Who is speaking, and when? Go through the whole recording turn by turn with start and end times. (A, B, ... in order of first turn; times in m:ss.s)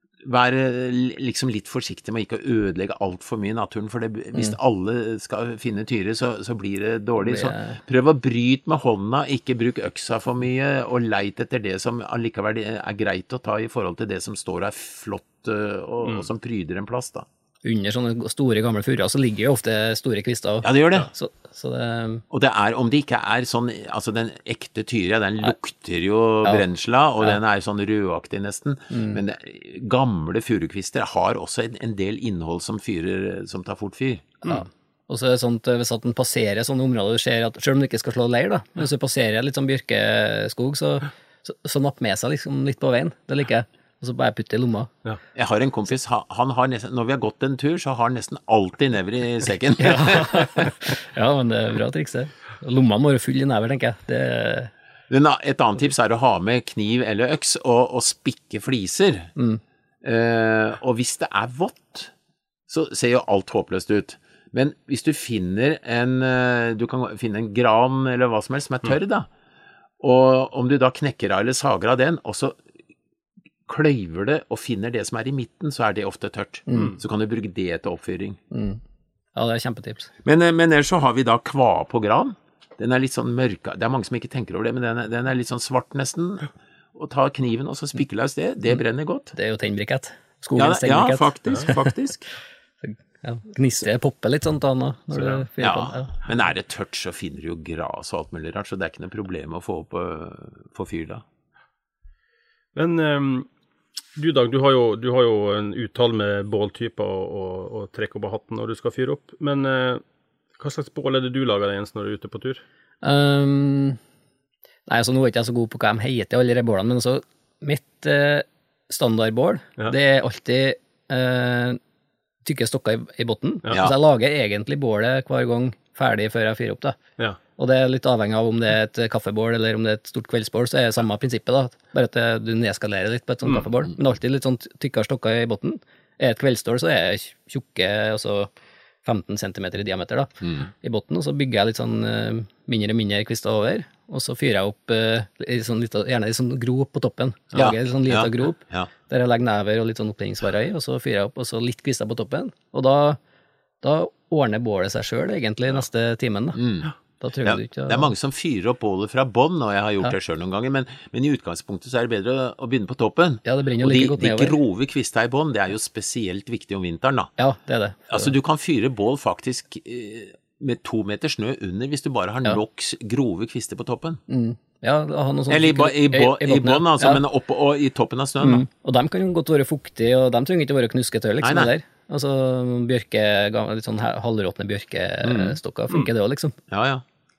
0:00.2-0:17.2 A
0:07.2-0:07.8 B
0:17.6-0:22.2 B
0:20.6-0:21.1 A
0:22.3-0:34.4 A
0:28.9-0:29.2 B
0:34.4-0:44.9 B
0:45.3-0:50.7 A
0:49.8-0:54.7 B
0:55.1-0:59.3 A
0:59.4-0:59.6 B
1:00.0-1:02.1 A
1:02.7-1:09.3 A
1:10.0-1:12.6 A
1:13.7-1:18.4 A
1:16.7-1:16.9 B
1:18.5-1:18.8 B
1:19.3-1:20.1 B
1:20.2-1:29.3 A
1:29.3-1:31.3 B
1:30.6-1:32.3 A
1:32.8-1:36.1 B
1:35.1-1:35.4 C
1:35.6-1:41.2 A
1:42.7-1:43.5 C
1:44.2-1:50.0 C
1:50.6-1:52.6 C
1:53.0-1:54.0 B
1:54.9-2:01.8 B
2:02.4-2:07.0 B
2:07.6-2:18.5 B
2:19.0-2:33.2 B
2:20.4-2:20.7 A
2:27.5-2:28.9 A
2:33.8-2:36.6 B
2:36.6-2:36.9 A
2:37.2-2:38.1 B
2:37.4-2:47.3 A
2:43.4-2:44.6 B
2:47.4-2:48.3 B
2:48.1-2:54.2 A
2:54.3-2:57.2 B
2:55.5-2:58.6 A
2:58.4-3:06.6 B
3:01.4-3:01.7 A
3:05.2-3:05.6 A
3:06.7-3:07.0 A